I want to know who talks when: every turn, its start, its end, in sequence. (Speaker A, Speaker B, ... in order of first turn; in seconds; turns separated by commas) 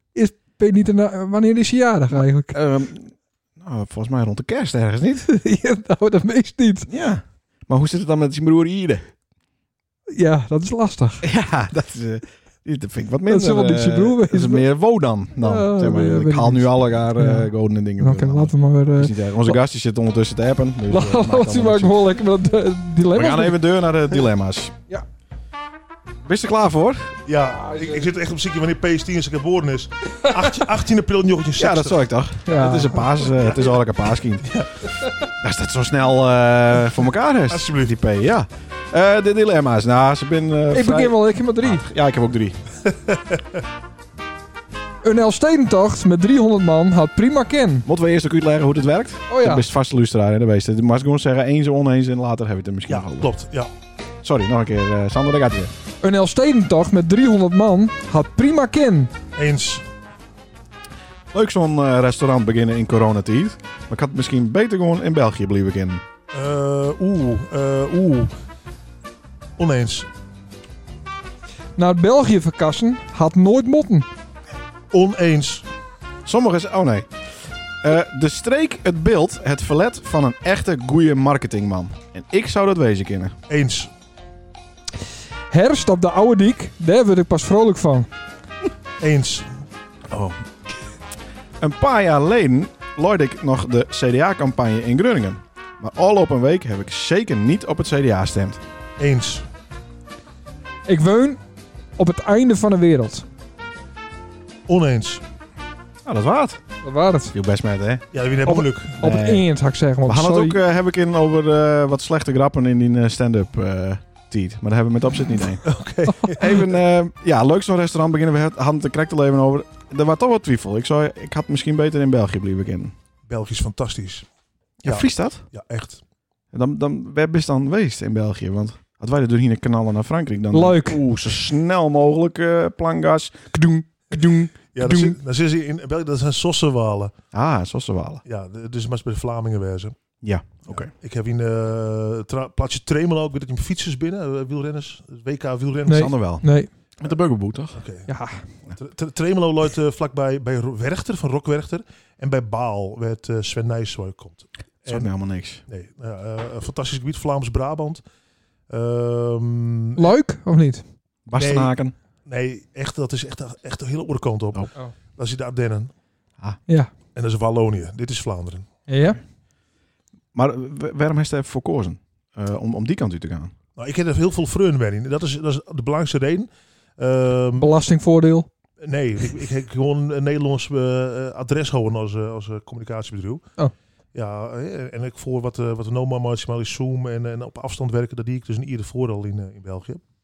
Speaker A: 0.1-2.6, Speaker B: 2.1-5.3, Speaker A: 5.2-6.9, Speaker B: 6.9-9.1, Speaker A: 10.1-11.2, Speaker B: 11.2-22.0, Speaker A: 13.3-14.6, Speaker A: 15.4-19.6, Speaker A: 20.9-23.6, Speaker B: 23.1-24.8, Speaker B: 26.2-27.1, Speaker C: 27.2-32.1, Speaker A: 27.6-28.1, Speaker A: 30.2-30.5, Speaker B: 31.6-34.5, Speaker A: 32.5-33.3, Speaker B: 35.4-42.6, Speaker C: 37.5-37.9, Speaker A: 40.7-41.8, Speaker C: 42.9-43.4, Speaker A: 45.0-47.9, Speaker B: 47.9-53.3, Speaker A: 49.3-49.6, Speaker C: 52.9-53.7, Speaker B: 54.2-55.7, Speaker A: 56.0-59.1, Speaker C: 59.4-59.8, Speaker B: 61.3-66.0, Speaker C: 66.3-68.3, Speaker C: 69.6-70.1, Speaker A: 71.8-74.1, Speaker C: 74.9-75.7, Speaker B: 76.2-77.1, Speaker B: 77.8-83.3, Speaker C: 83.5-83.9, Speaker A: 85.5-88.1, Speaker C: 89.0-89.5, Speaker B: 90.1-90.3, Speaker B: 91.6-98.6, Speaker C: 99.0-99.5, Speaker A: 100.9-101.4, Speaker A: 102.0-103.2, Speaker C: 104.7-105.2, Speaker B: 106.0-106.6, Speaker A: 106.8-107.3, Speaker B: 107.3-108.0, Speaker C: 108.1-109.0, Speaker A: 108.5-110.6, Speaker B: 109.0-109.4, Speaker B: 110.0-115.7, Speaker C: 115.6-116.6, Speaker B: 116.2-122.9, Speaker C: 123.3-124.2, Speaker B: 124.8-125.4, Speaker C: 124.8-126.0, Speaker B: 126.5-135.2, Speaker A: 130.5-131.0, Speaker C: 134.7-137.1, Speaker B: 137.3-138.2, Speaker C: 138.2-139.9, Speaker B: 140.2-140.9, Speaker C: 140.7-146.1, Speaker A: 145.9-146.7, Speaker B: 145.9-146.5, Speaker B: 147.0-147.8, Speaker C: 147.7-148.1, Speaker A: 148.1-148.4, Speaker C: 148.7-155.1, Speaker B: 154.8-155.6, Speaker C: 155.7-158.0, Speaker C: 158.7-160.1, Speaker A: 160.0-160.8, Speaker B: 161.3-161.9, Speaker C: 161.4-161.7, Speaker C: 162.2-165.9, Speaker C: 167.1-168.7, Speaker A: 168.9-169.2, Speaker B: 170.3-173.5, Speaker C: 173.8-177.7, Speaker A: 177.6-178.5, Speaker C: 178.8-183.4, Speaker C: 184.1-190.0